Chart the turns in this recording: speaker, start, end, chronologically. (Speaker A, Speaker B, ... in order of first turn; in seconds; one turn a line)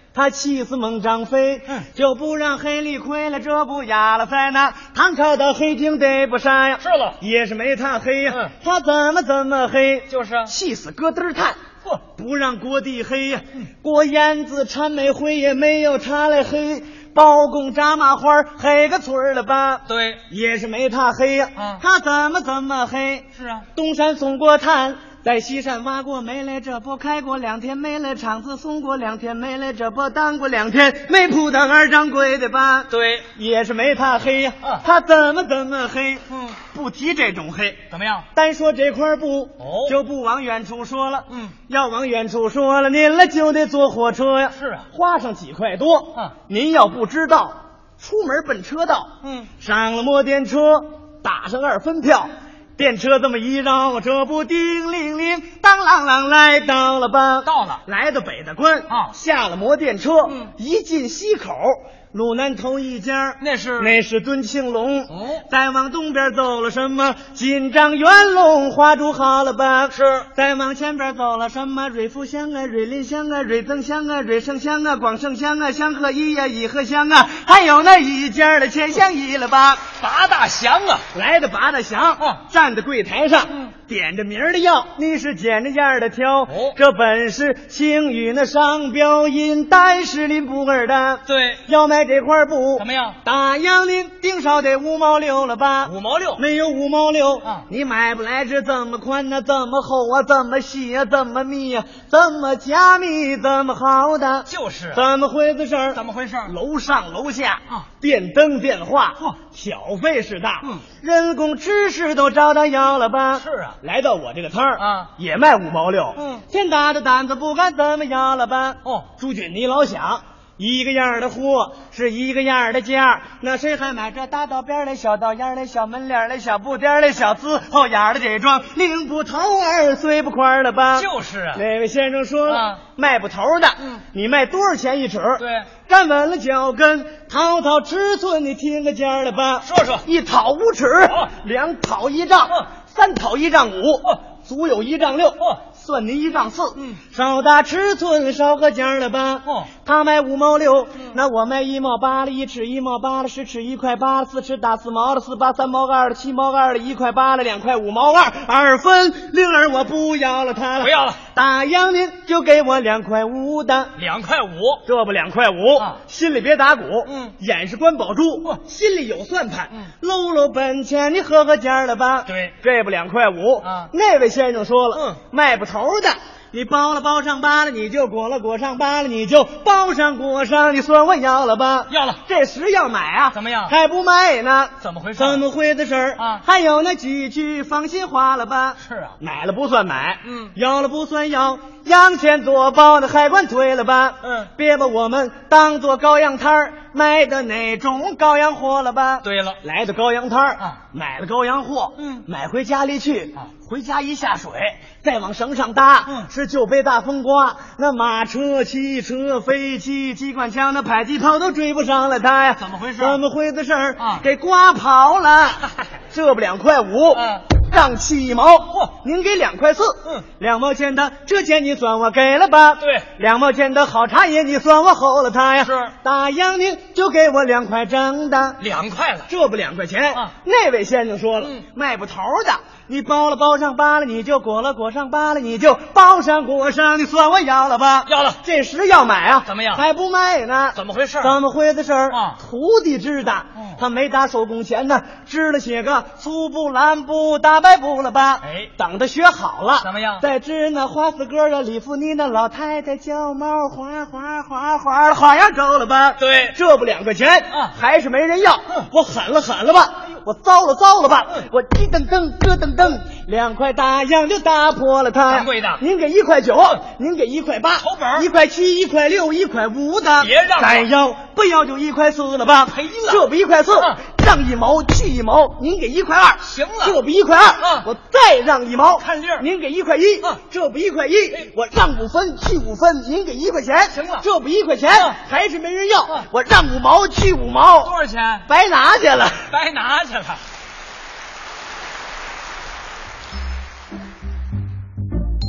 Speaker A: 0.1-37.8
Speaker B: 6.8-7.2
Speaker B: 10.1-10.5
Speaker B: 19.9-20.2
Speaker B: 21.6-21.8
Speaker B: 23.3-23.6
Speaker B: 32.9-33.3
Speaker B: 36.3-36.6
Speaker B: 37.9-38.3
Speaker A: 38.3-79.8
Speaker B: 39.6-40.0
Speaker B: 41.3-41.5
Speaker B: 44.5-44.9
Speaker B: 49.2-49.5
Speaker B: 57.4-57.8
Speaker B: 58.9-59.1
Speaker B: 63.4-63.9
Speaker B: 65.1-65.5
Speaker B: 69.9-70.3
Speaker B: 80.0-81.1
Speaker A: 81.1-163.9
Speaker B: 86.5-86.8
Speaker B: 91.3-91.6
Speaker B: 92.8-93.2
Speaker B: 95.8-96.4
Speaker B: 104.5-105.0
Speaker B: 105.9-106.5
Speaker B: 113.4-113.8
Speaker B: 114.8-115.1
Speaker B: 116.2-116.4
Speaker B: 118.8-119.1
Speaker B: 130.9-131.6
Speaker B: 132.5-132.8
Speaker B: 135.4-135.7
Speaker B: 139.6-140.0
Speaker B: 160.8-161.2
Speaker B: 163.9-164.8
Speaker A: 164.8-228.6
Speaker B: 167.1-167.3
Speaker B: 172.2-172.5
Speaker B: 173.6-173.9
Speaker B: 174.9-175.2
Speaker B: 181.9-182.2
Speaker B: 183.3-183.7
Speaker B: 184.8-185.4
Speaker B: 186.2-186.4
Speaker B: 188.8-189.2
Speaker B: 190.2-190.5
Speaker B: 194.2-194.5
Speaker B: 199.2-199.6
Speaker B: 202.0-202.2
Speaker B: 212.5-213.2
Speaker B: 214.0-214.3
Speaker B: 217.1-217.4
Speaker B: 222.8-223.1
Speaker B: 225.6-225.9
Speaker B: 228.6-229.3
Speaker A: 229.3-287.9
Speaker B: 238.1-238.4
Speaker B: 239.4-239.8
Speaker B: 240.7-241.3
Speaker B: 242.1-242.4
Speaker B: 243.6-243.8
Speaker B: 248.4-248.7
Speaker B: 249.8-250.2
Speaker B: 256.2-256.6
Speaker B: 257.5-257.7
Speaker B: 265.3-265.8
Speaker B: 267.8-268.3
Speaker B: 270.2-270.9
Speaker B: 272.7-273.2
Speaker B: 276.4-277.0
Speaker B: 277.6-277.9
Speaker B: 279.0-279.5
Speaker B: 283.9-284.3
Speaker B: 284.9-285.2
Speaker B: 287.8-288.5
Speaker A: 288.5-289.5
Speaker B: 289.5-290.4